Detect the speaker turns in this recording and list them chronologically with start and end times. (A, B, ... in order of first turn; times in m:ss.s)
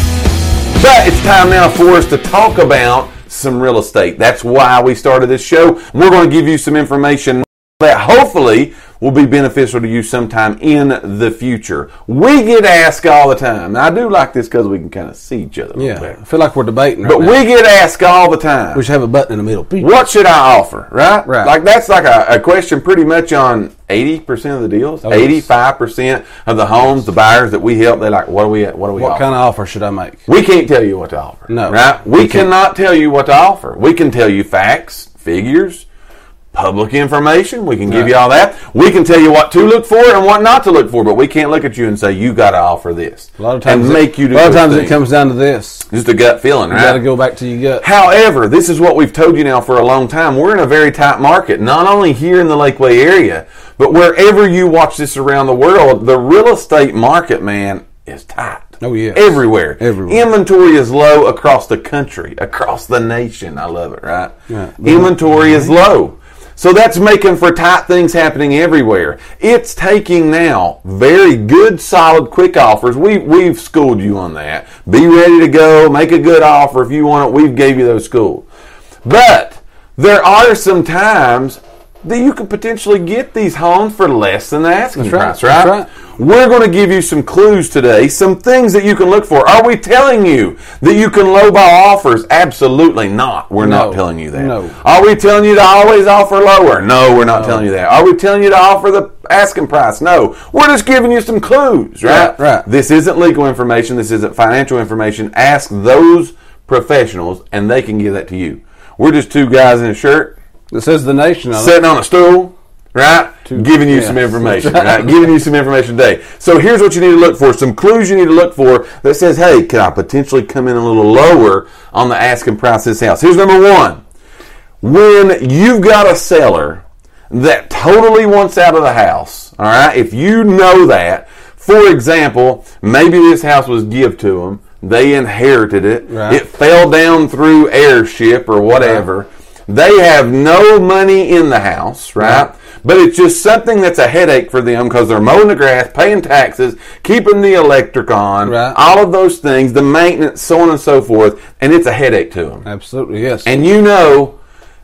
0:00.8-0:16.1 A
0:15.8-0:17.4 B
0:17.0-0:18.8 A
0:18.7-0:19.9 B
0:19.8-0:29.2 A
0:21.2-0:21.5 B
0:25.0-0:25.5 B
0:29.0-0:30.2 B
0:30.3-0:35.8 A
0:31.5-0:32.5 B
0:36.5-0:45.0 A
0:37.9-0:38.1 B
0:43.4-0:45.8 B
0:45.9-0:47.0 A
0:46.7-0:47.8 B
0:47.8-1:18.4 A
0:58.8-1:00.2 B
1:04.5-1:05.7 B
1:19.0-1:50.3 A
1:24.9-1:25.9 B
1:33.6-1:34.8 B
1:37.3-1:37.6 B
1:42.0-1:42.6 B
1:50.7-1:51.8 B
1:51.5-2:04.0 A
1:53.5-1:55.2 B
2:04.8-2:32.6 A
2:16.1-2:16.4 B
2:18.8-2:19.0 B
2:28.4-2:28.8 B
2:32.6-2:33.5 B
2:33.4-2:34.4 A